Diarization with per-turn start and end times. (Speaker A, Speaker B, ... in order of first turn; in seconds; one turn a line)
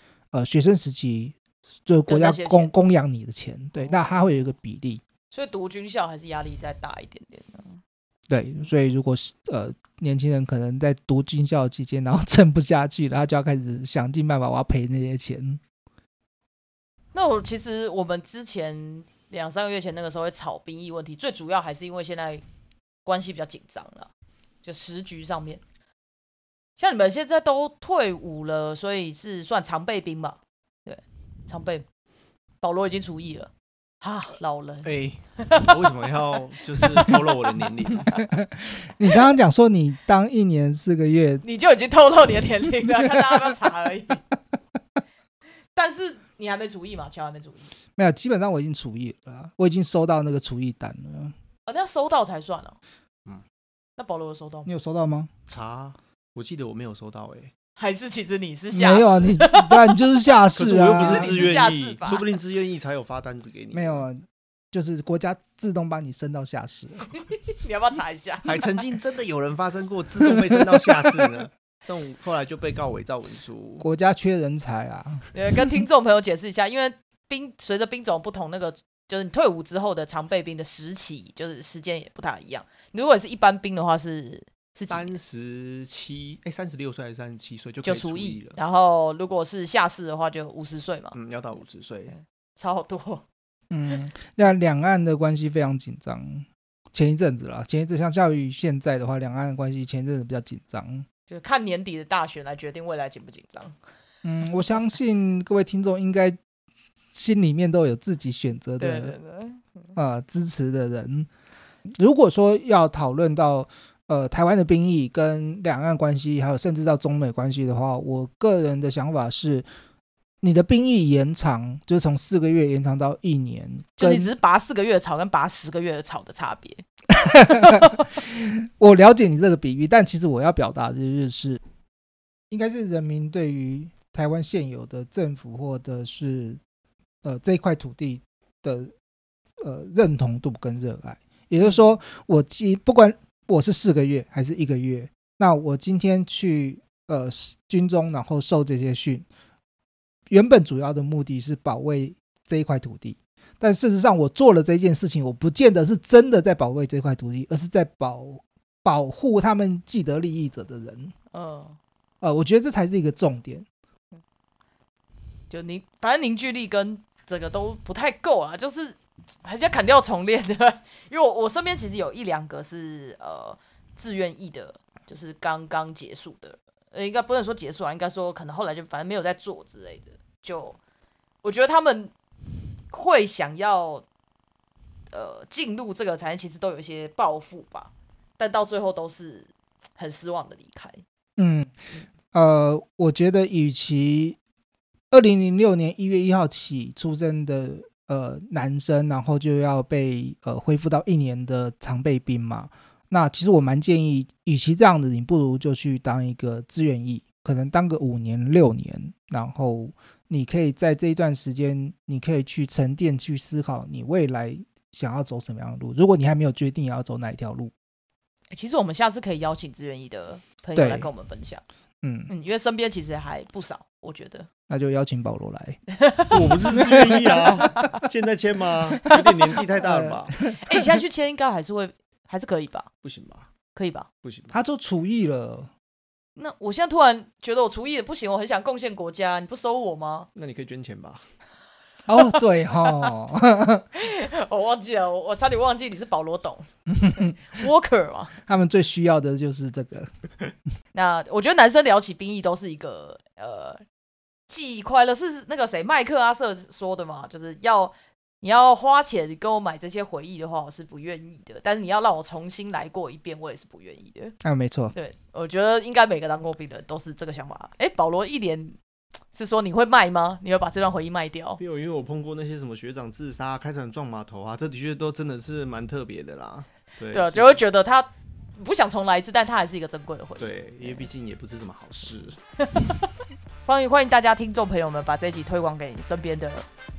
Speaker A: 0.3-5.0
Speaker B: 2.1-2.7
Speaker B: 3.8-4.1
Speaker B: 5.3-7.8
Speaker A: 8.3-15.6
Speaker B: 17.1-22.4
Speaker B: 23.0-24.1
Speaker B: 24.6-25.6
Speaker B: 26.8-31.9
Speaker B: 32.6-33.5
Speaker B: 34.0-35.9
Speaker C: 34.8-38.2
Speaker B: 36.8-37.3
Speaker A: 38.2-41.4
Speaker B: 41.4-44.2
Speaker A: 42.9-43.5
Speaker B: 45.8-47.7
Speaker A: 48.0-51.3
Speaker B: 51.6-52.8
Speaker B: 54.0-54.7
Speaker A: 54.6-55.3
Speaker C: 55.5-57.5
Speaker B: 57.8-60.0
Speaker A: 58.7-61.4
Speaker C: 60.5-64.1
Speaker B: 60.9-62.3
Speaker A: 63.7-67.1
Speaker B: 67.2-68.7
Speaker C: 68.4-73.8
Speaker A: 73.8-75.3
Speaker B: 75.3-85.1
Speaker C: 84.9-88.6
Speaker B: 87.8-91.1
Speaker C: 91.1-92.1
Speaker B: 92.1-93.2
Speaker A: 93.7-101.0
Speaker B: 101.3-103.7
Speaker A: 104.2-106.4
Speaker A: 107.1-109.1
Speaker B: 108.8-109.6
Speaker A: 109.9-111.3
Speaker A: 112.0-119.7
Speaker A: 120.4-124.3
Speaker B: 124.0-126.8
Speaker A: 127.1-131.6
Speaker B: 127.3-128.0
Speaker A: 132.5-136.6
Speaker A: 137.2-138.9
Speaker A: 139.6-149.2
Speaker A: 150.3-161.1
Speaker B: 161.3-161.8
Speaker A: 162.2-163.7
Speaker B: 165.5-180.8
Speaker B: 181.4-182.1
Speaker B: 182.9-184.0
Speaker B: 185.1-191.0
Speaker A: 191.4-191.8
Speaker A: 192.3-194.4
Speaker A: 195.1-217.7
Speaker B: 218.5-221.6
Speaker A: 220.8-221.1
Speaker A: 222.0-222.3
Speaker B: 222.3-224.5
Speaker A: 224.7-225.8
Speaker B: 225.9-226.6
Speaker C: 226.3-230.3
Speaker A: 226.8-227.4
Speaker B: 227.6-228.0
Speaker A: 229.8-231.0
Speaker B: 230.6-232.9
Speaker C: 233.0-233.5
Speaker B: 233.7-234.1
Speaker C: 234.2-234.6
Speaker A: 234.5-235.7
Speaker B: 236.3-240.3
Speaker C: 240.3-241.2
Speaker A: 242.1-243.8
Speaker B: 242.2-243.1
Speaker B: 243.9-248.3
Speaker A: 246.9-247.4
Speaker A: 248.4-250.1
Speaker B: 250.9-253.8
Speaker B: 254.5-264.4
Speaker A: 264.4-264.9
Speaker B: 264.9-268.8
Speaker B: 269.3-271.6
Speaker C: 271.6-277.6
Speaker B: 277.1-281.1
Speaker C: 280.4-282.4
Speaker B: 282.6-283.1
Speaker B: 283.6-286.6